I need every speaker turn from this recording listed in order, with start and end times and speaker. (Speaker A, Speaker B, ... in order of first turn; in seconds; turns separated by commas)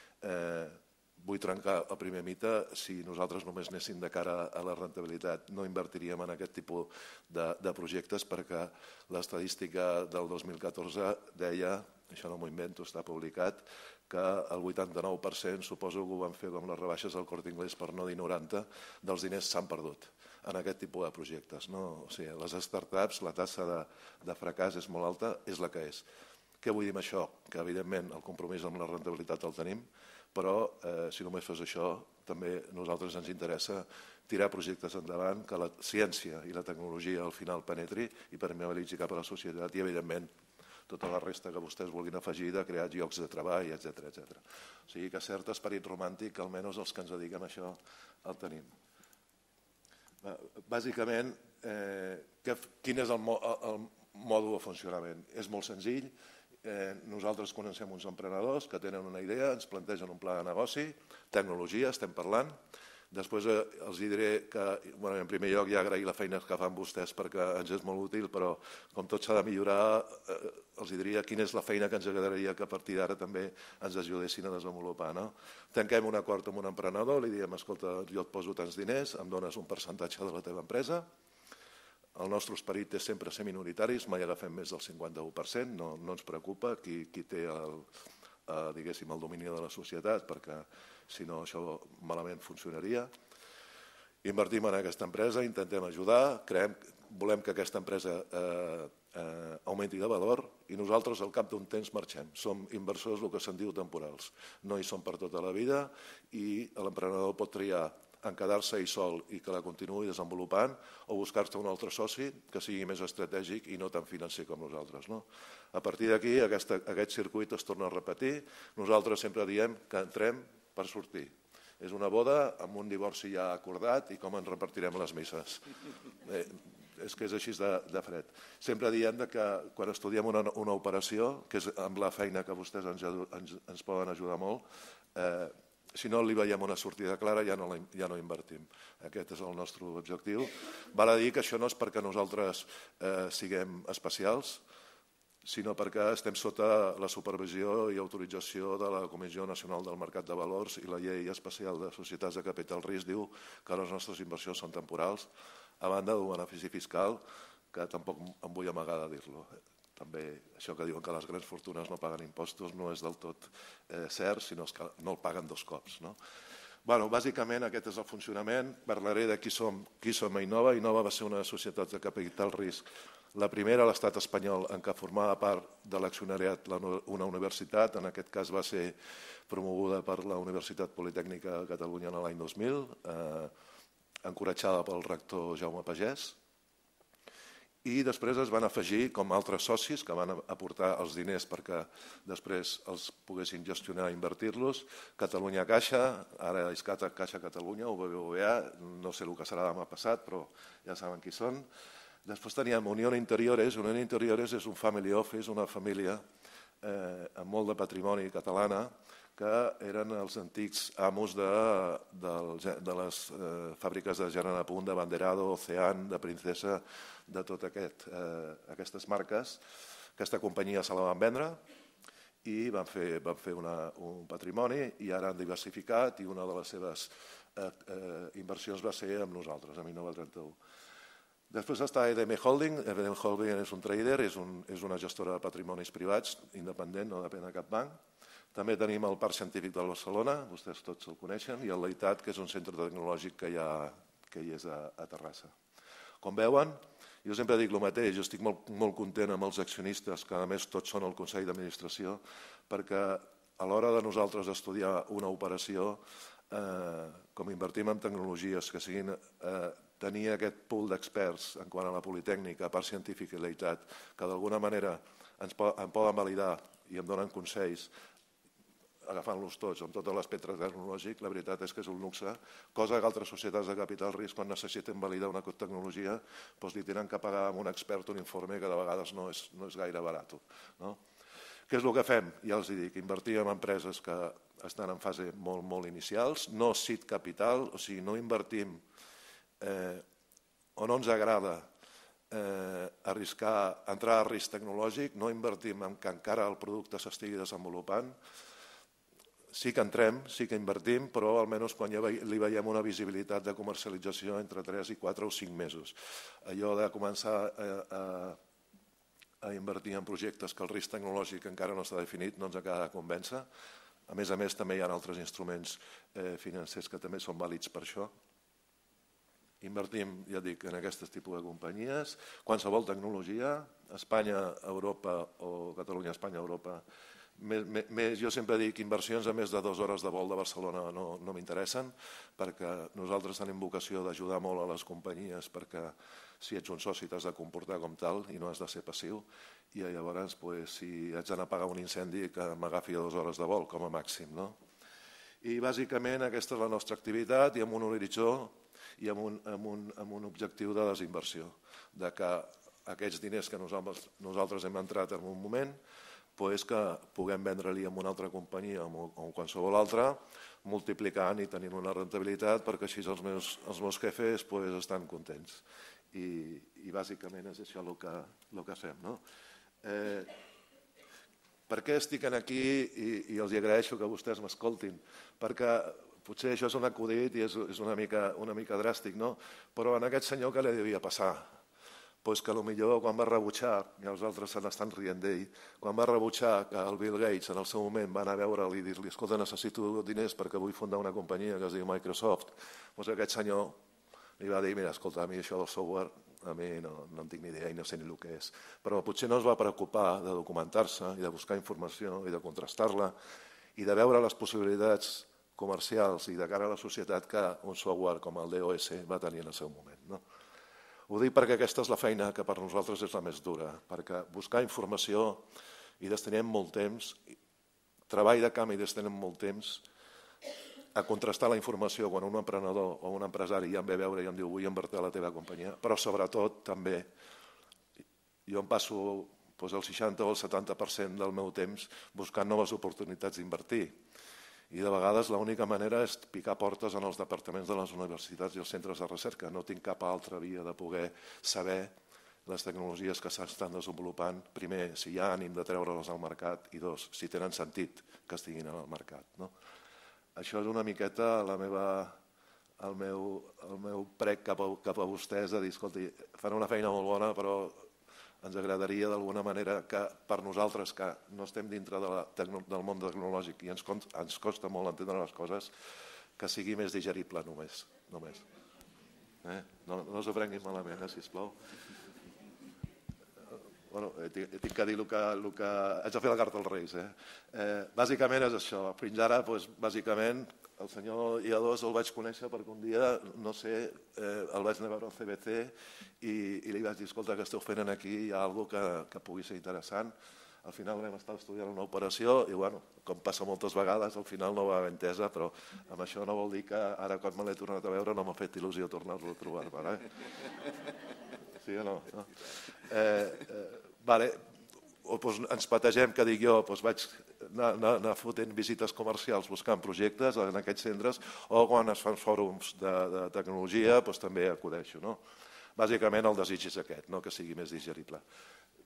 Speaker A: 0.2-26.1, Speaker A: 26.6-40.3, Speaker A: 40.9-48.7, Speaker A: 50.2-62.5, Speaker A: 63.1-81.1, Speaker A: 82.1-87.9, Speaker A: 88.5-93.1, Speaker A: 94.2-134.6, Speaker A: 135.1-144.6, Speaker A: 145.4-155.3, Speaker A: 155.8-166.2, Speaker A: 166.8-179.0, Speaker A: 179.5-183.5, Speaker A: 184.2-186.4, Speaker A: 187.8-201.7, Speaker A: 202.2-206.2, Speaker A: 206.8-219.6, Speaker A: 220.2-221.6, Speaker A: 222.4-230.6, Speaker A: 231.5-238.0, Speaker A: 238.5-245.5, Speaker A: 246.2-267.9, Speaker A: 269.0-281.0, Speaker A: 281.7-288.8, Speaker A: 289.6-290.0, Speaker A: 290.8-291.7, Speaker A: 292.3-298.1, Speaker A: 299.5-308.4, Speaker A: 309.4-313.4, Speaker A: 314.1-318.1, Speaker A: 319.6-326.8, Speaker A: 327.4-344.6, Speaker A: 345.4-355.8, Speaker A: 356.4-369.2, Speaker A: 369.8-370.3, Speaker A: 371.7-381.5, Speaker A: 382.2-393.8, Speaker A: 394.4-403.1, Speaker A: 403.8-410.2, Speaker A: 411.1-415.5, Speaker A: 416.0-417.3, Speaker A: 418.1-419.8, Speaker A: 420.9-427.1, Speaker A: 428.5-434.0, Speaker A: 434.7-441.9, Speaker A: 442.4-449.5, Speaker A: 450.4-452.2, Speaker A: 452.8-457.9, Speaker A: 458.4-465.7, Speaker A: 466.4-468.4, Speaker A: 469.4-471.6, Speaker A: 473.9-500.1, Speaker A: 501.6-504.4, Speaker A: 505.0-515.2, Speaker A: 515.8-518.2